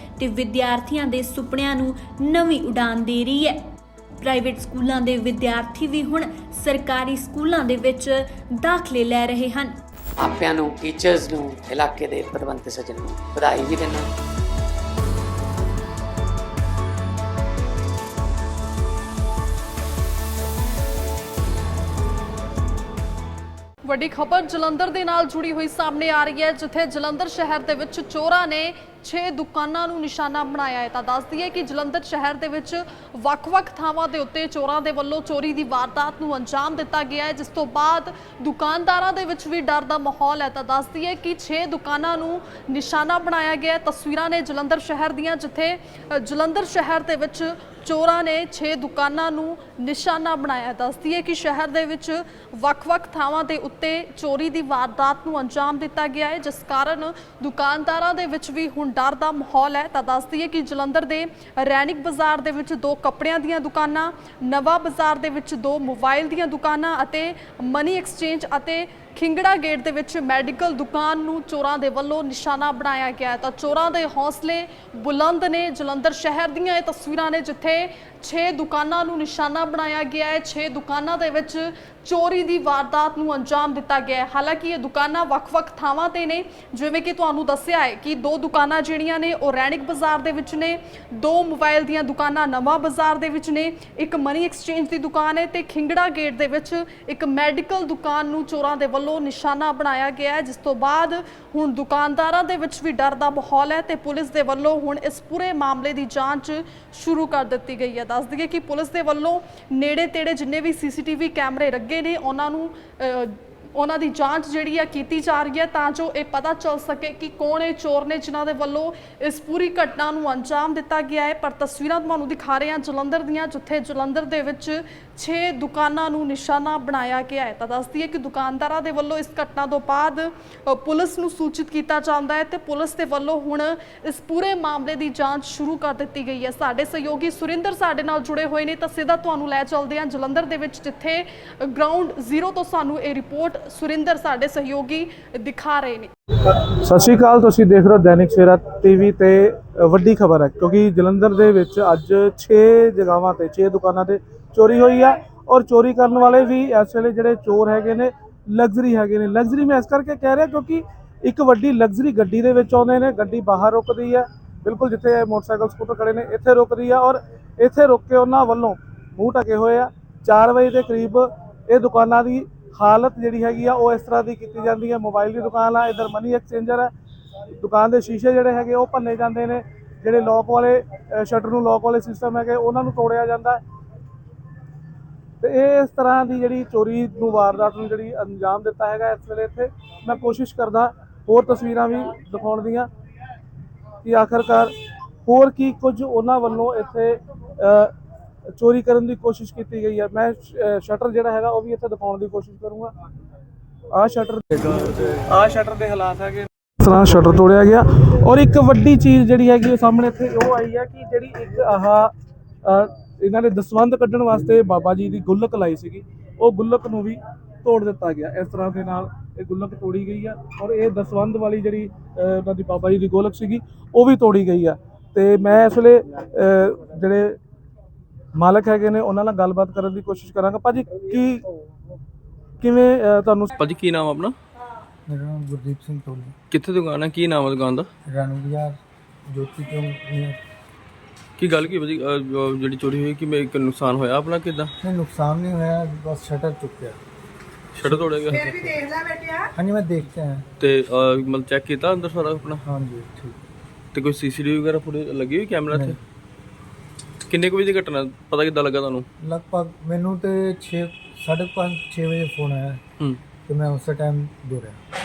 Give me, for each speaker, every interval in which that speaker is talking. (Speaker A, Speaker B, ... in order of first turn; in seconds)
Speaker A: 0.2-3.6, 4.2-9.8
Speaker B: 10.2-14.1
Speaker C: 23.9-146.1
Speaker D: 146.8-176.9, 177.6-183.6, 185.4-192.9, 194.0-194.7, 195.3-197.9, 198.6-202.9, 203.9-204.4, 205.3-212.1, 212.7-227.4, 228.3-231.4, 232.6-233.5
Speaker E: 204.5-205.2, 233.6-234.3, 236.5-237.9, 241.4-244.7, 247.8-248.6, 250.6-252.6, 253.9-256.0, 257.3-259.1
Speaker F: 235.1-236.3, 238.1-240.4, 244.8-247.0, 247.8-250.5, 252.6-253.4, 255.7-256.0, 259.2-262.8, 263.5-264.8